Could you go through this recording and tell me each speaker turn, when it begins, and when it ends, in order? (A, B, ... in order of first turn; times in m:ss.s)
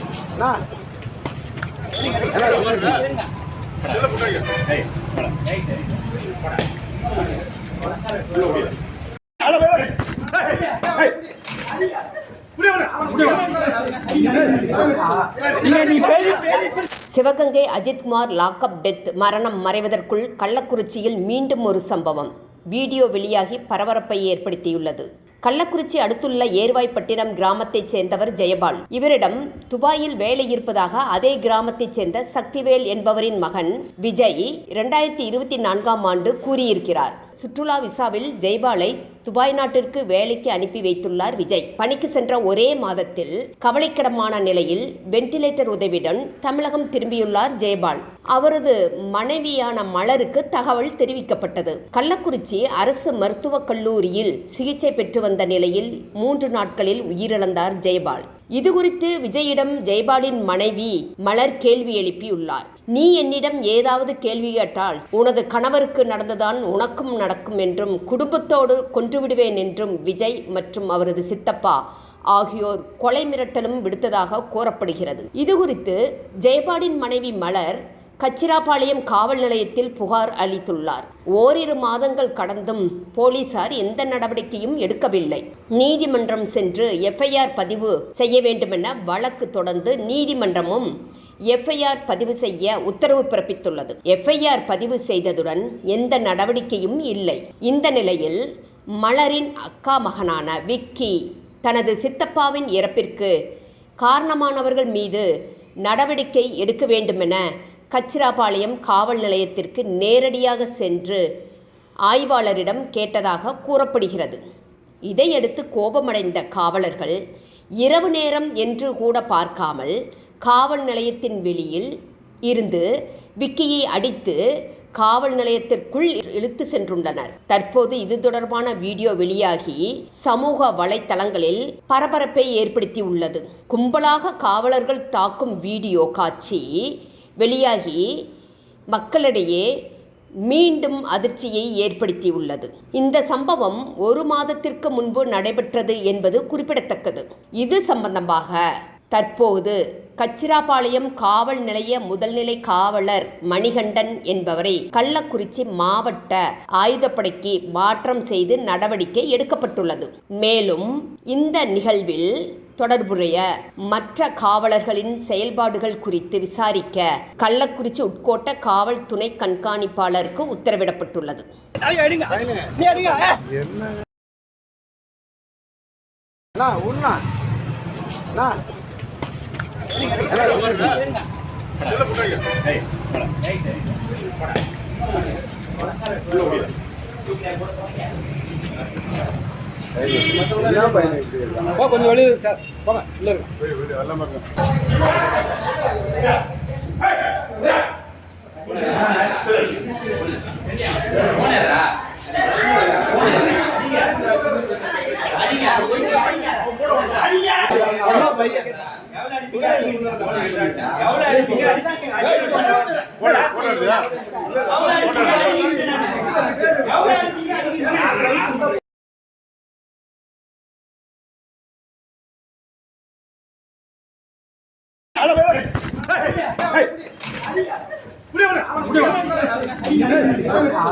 0:00.4-0:00.6 A
0:02.3-0:02.8 A
0:03.9-0:04.2 B
0:14.2-0:14.7 B
0:15.6-0:16.6 B
0:17.1-1:30.9 C
1:31.5-1:38.5 C
1:39.0-1:43.4 C
1:44.0-1:45.3 C
1:45.8-1:51.3 C
1:52.1-1:54.4 C
1:55.1-1:57.2 C
1:57.8-2:02.0 C
2:02.5-2:18.2 C
2:18.9-2:19.7 C
2:20.5-2:51.5 C
2:52.2-2:52.9 A
2:53.5-2:53.8 A
2:56.6-2:57.2 A
2:58.3-2:58.6 A
3:01.8-3:03.8 B
3:10.4-3:11.8 A
3:11.8-3:13.4 B
3:25.5-3:26.2 B
3:28.2-3:28.6 A
3:29.5-3:29.9 B
3:31.1-3:32.6 B
3:33.4-3:33.8 B
3:34.7-3:36.1 B
3:36.9-3:38.3 B
3:49.9-3:50.4 B